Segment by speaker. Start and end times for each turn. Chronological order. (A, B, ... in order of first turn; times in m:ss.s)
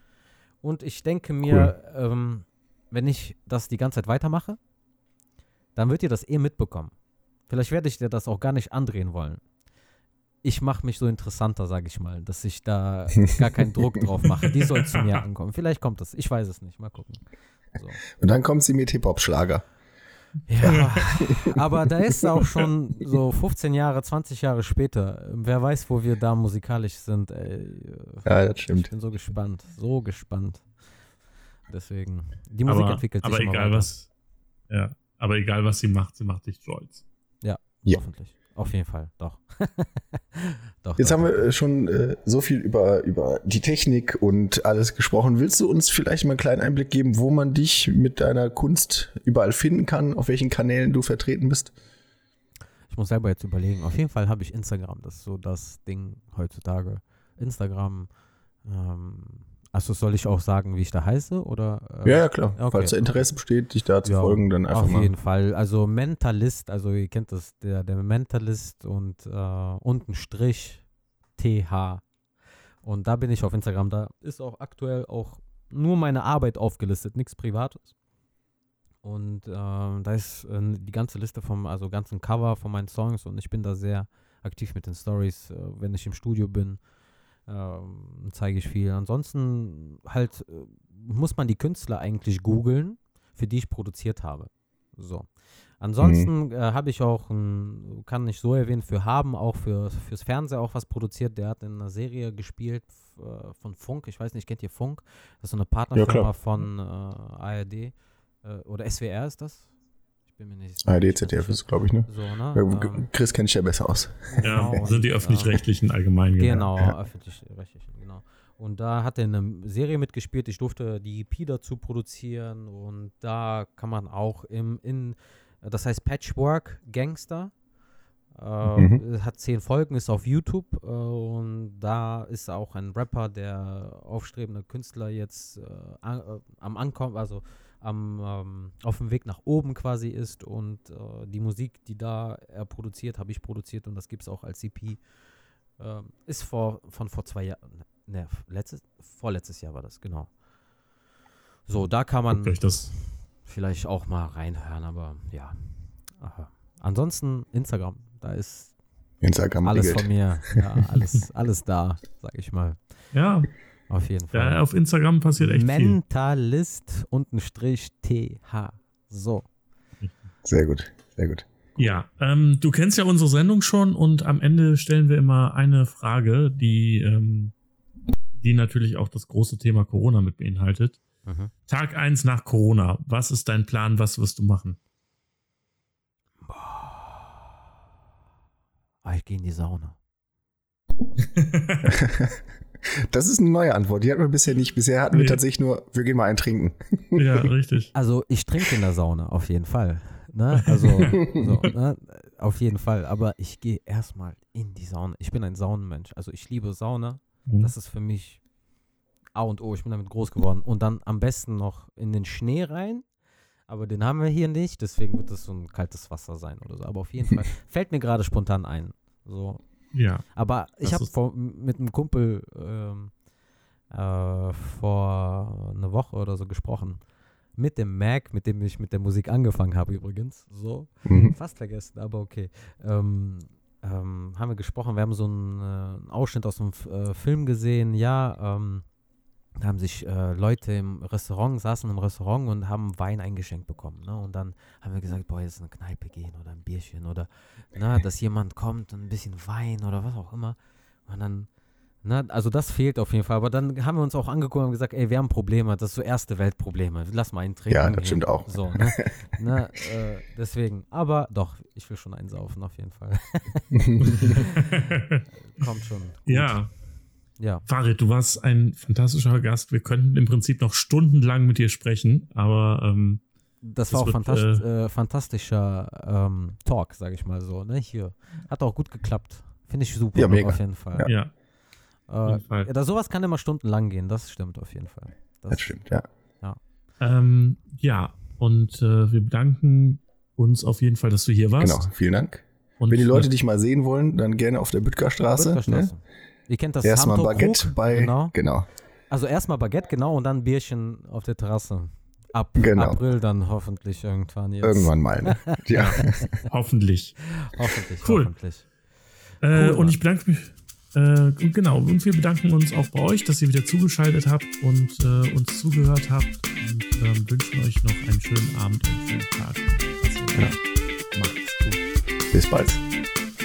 0:00.6-0:04.6 A
0:05.8-0:06.9 A
0:07.5-0:09.4 A
0:10.4-0:18.0 A
0:14.9-0:15.2 B
0:18.2-0:19.6 C
0:20.5-0:30.7 A
0:20.6-0:21.6 C
0:28.3-0:28.9 C
0:31.7-0:34.0 A
0:32.7-0:34.1 B
0:34.7-0:37.0 B
0:37.4-0:41.4 A
0:41.0-0:51.7 C
0:52.9-0:58.1 A
0:58.6-1:03.2 A
1:02.0-1:05.1 C
1:04.0-1:10.8 A
1:11.4-1:12.0 A
1:12.8-1:17.9 A
1:19.0-1:26.8 A
1:27.5-1:35.3 A
1:35.8-1:49.7 A
1:36.0-1:36.3 C
1:46.0-1:46.3 C
1:50.3-1:53.1 A
1:50.8-1:54.7 C
1:54.3-1:55.6 A
1:54.4-1:56.7 B
1:56.4-2:07.5 A
2:08.4-2:25.0 A
2:08.7-2:09.0 C
2:25.8-2:30.3 A
2:31.7-2:38.7 A
2:32.3-2:32.9 B
2:39.2-2:40.1 C
2:39.6-2:42.8 A
2:43.1-2:43.5 B
2:43.9-2:44.6 A
2:44.3-2:46.0 B
2:45.4-2:49.5 A
2:50.4-2:51.8 C
2:51.8-2:57.5 B
2:58.4-3:01.0 B
3:01.2-3:01.5 A
3:01.7-3:04.8 B
3:06.4-3:07.4 A
3:09.0-3:10.0 A
3:11.4-3:11.9 B
3:11.8-3:12.4 C
3:13.0-3:17.3 C
3:15.1-3:15.4 B
3:17.2-3:17.9 B
3:17.9-3:28.4 A
3:21.1-3:21.5 C
3:27.5-3:27.7 B
3:29.4-3:33.1 A
3:33.7-3:39.6 A
3:39.9-3:40.3 B
3:40.3-3:43.1 A
3:40.8-3:41.1 B
3:43.9-3:47.0 A
3:47.6-3:58.8 A
3:51.1-3:51.4 C
3:59.6-4:11.5 A
4:12.0-4:24.9 A
4:17.7-4:19.1 C
4:23.7-4:24.4 C
4:24.0-4:25.2 B
4:25.4-4:26.6 A
4:26.3-4:26.7 B
4:27.4-4:27.6 A
4:27.7-4:33.2 B
4:33.6-4:41.1 A
4:33.9-4:34.6 B
4:40.2-4:41.1 C
4:41.0-4:41.3 B
4:42.1-4:45.8 A
4:42.3-4:42.7 B
4:45.5-4:46.0 C
4:47.0-4:51.9 B
4:51.6-4:55.9 C
4:52.8-4:53.3 B
4:55.4-4:58.3 A
4:56.8-4:58.7 C
4:59.1-5:06.3 A
5:02.6-5:03.0 C
5:04.6-5:06.3 C
5:05.7-5:07.4 B
5:07.4-5:08.7 A
5:08.0-5:08.3 B
5:09.4-5:20.6 B
5:09.5-5:10.0 A
5:21.1-5:21.8 B
5:22.3-5:22.8 C